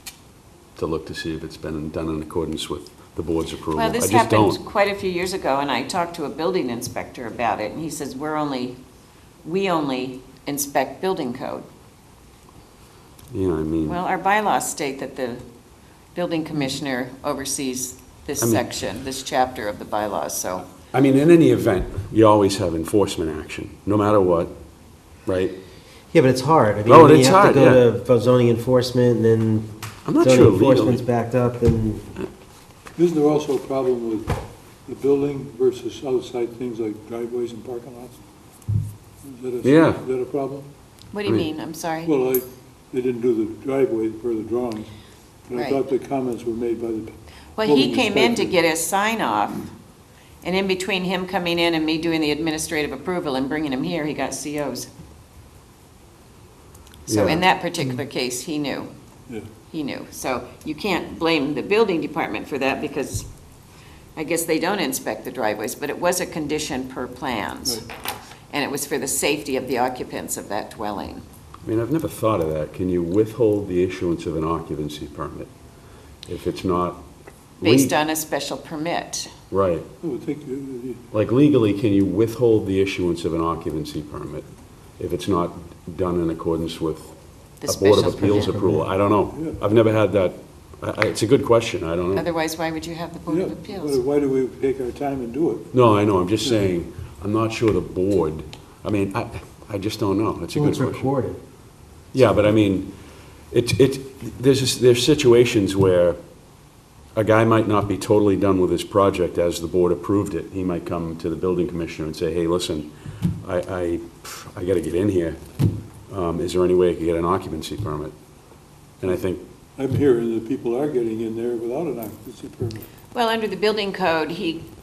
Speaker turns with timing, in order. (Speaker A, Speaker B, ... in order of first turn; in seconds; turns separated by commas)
Speaker A: 0.8-4.6, Speaker B: 3.7-8.8, Speaker B: 9.4-11.7, Speaker A: 13.3-14.0, Speaker B: 13.9-15.4, Speaker B: 16.1-20.7, Speaker A: 18.4-18.7, Speaker A: 20.9-24.6, Speaker A: 25.3-25.6, Speaker C: 26.1-32.1, Speaker A: 26.9-27.8, Speaker A: 30.1-31.0, Speaker D: 33.0-34.3, Speaker D: 34.9-38.2, Speaker D: 39.2-40.7, Speaker A: 39.6-40.0, Speaker B: 41.1-42.1, Speaker D: 42.0-44.9, Speaker D: 45.5-48.5, Speaker B: 45.5-45.8, Speaker B: 47.6-49.7, Speaker B: 50.4-54.9, Speaker B: 57.1-58.9, Speaker A: 57.1-57.4, Speaker B: 59.7-63.3, Speaker B: 64.2-67.8, Speaker B: 68.5-71.2, Speaker A: 71.6-75.5, Speaker A: 76.3-77.0, Speaker A: 77.6-77.9, Speaker B: 77.6-79.3, Speaker A: 79.5-79.9, Speaker D: 80.0-81.0, Speaker A: 81.1-84.5, Speaker A: 85.0-87.1, Speaker B: 87.6-88.6, Speaker A: 87.7-92.3, Speaker D: 89.3-89.6, Speaker B: 92.2-94.0, Speaker D: 93.3-95.7, Speaker A: 95.7-101.1, Speaker D: 96.4-96.7, Speaker C: 100.5-101.4, Speaker A: 102.1-102.9, Speaker A: 103.5-106.2, Speaker A: 107.2-115.4, Speaker A: 116.1-118.1, Speaker A: 119.0-119.4, Speaker D: 119.8-122.8, Speaker B: 123.1-124.6